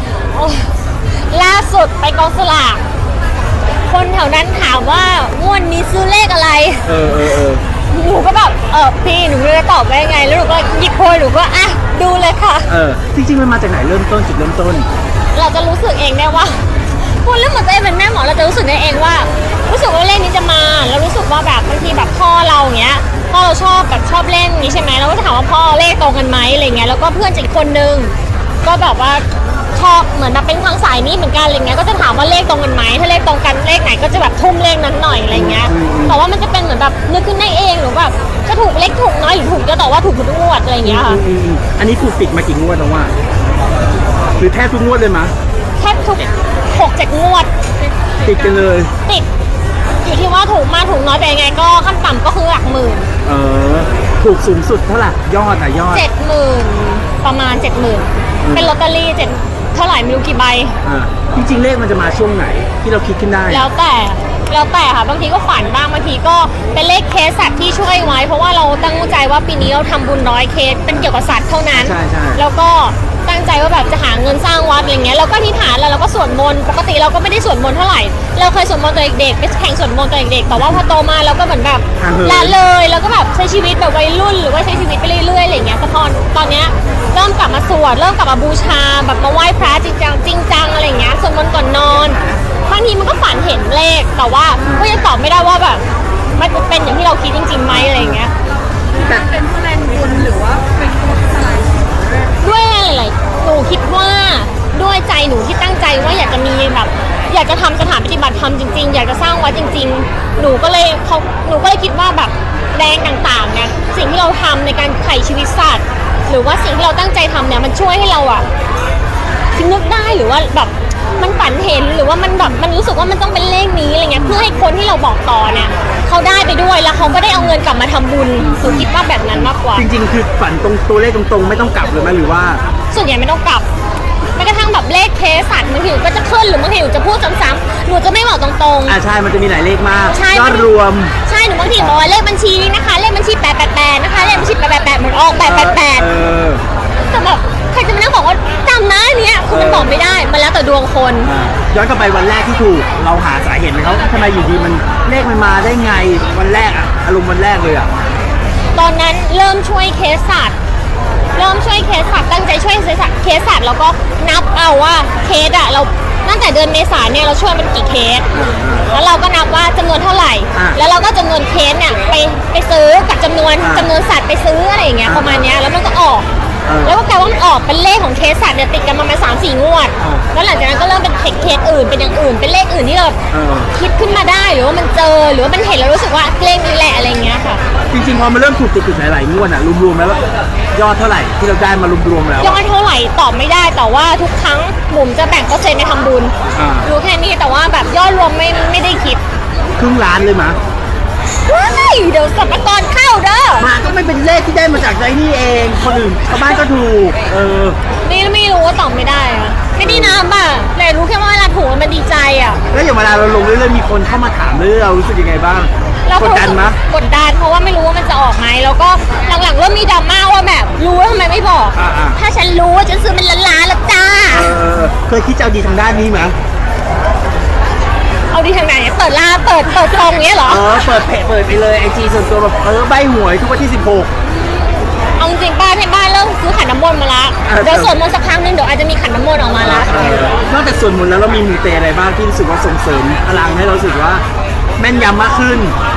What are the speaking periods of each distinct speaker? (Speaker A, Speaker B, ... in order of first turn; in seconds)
Speaker A: 0.3-0.7, 1.3-2.8, 3.9-6.9, 7.9-12.7, 15.3-41.2, 45.8-47.5, 50.0-53.1, 55.9-60.8, 63.5-95.8, 96.4-98.3, 102.4-118.5, 119.5-129.9, 132.9-133.7, 134.3-139.0, 140.1-140.7, 141.2-146.1, 147.1-151.3, 158.7-160.6, 161.3-168.3, 168.9-176.2, 176.8-183.2, 183.7-187.6, 192.4-199.2, 201.4-203.7, 208.0-212.6, 216.1-224.6, 228.3-230.7, 235.2-240.1
Speaker B: 6.8-7.6, 12.7-14.9, 35.3-36.2, 40.8-43.1, 44.4-45.3, 48.2-48.9, 53.2-56.0, 58.4-58.7, 60.8-63.6, 71.8-72.4, 82.0-82.6, 94.6-94.9, 97.7-98.2, 128.4-132.6, 138.8-141.2, 144.1-144.5, 145.4-146.6, 149.5-149.9, 151.2-157.9, 168.3-168.9, 170.5-170.8, 173.6-173.9, 175.0-175.4, 176.7-177.0, 183.3-183.7, 187.9-190.2, 190.7-192.6, 196.5-196.9, 199.8-200.6, 203.6-207.8, 209.8-210.2, 212.7-216.8, 221.7-222.2, 224.3-226.3, 230.4-234.1, 237.4-237.9, 239.6-244.2, 244.8-245.7
Speaker C: 99.0-101.7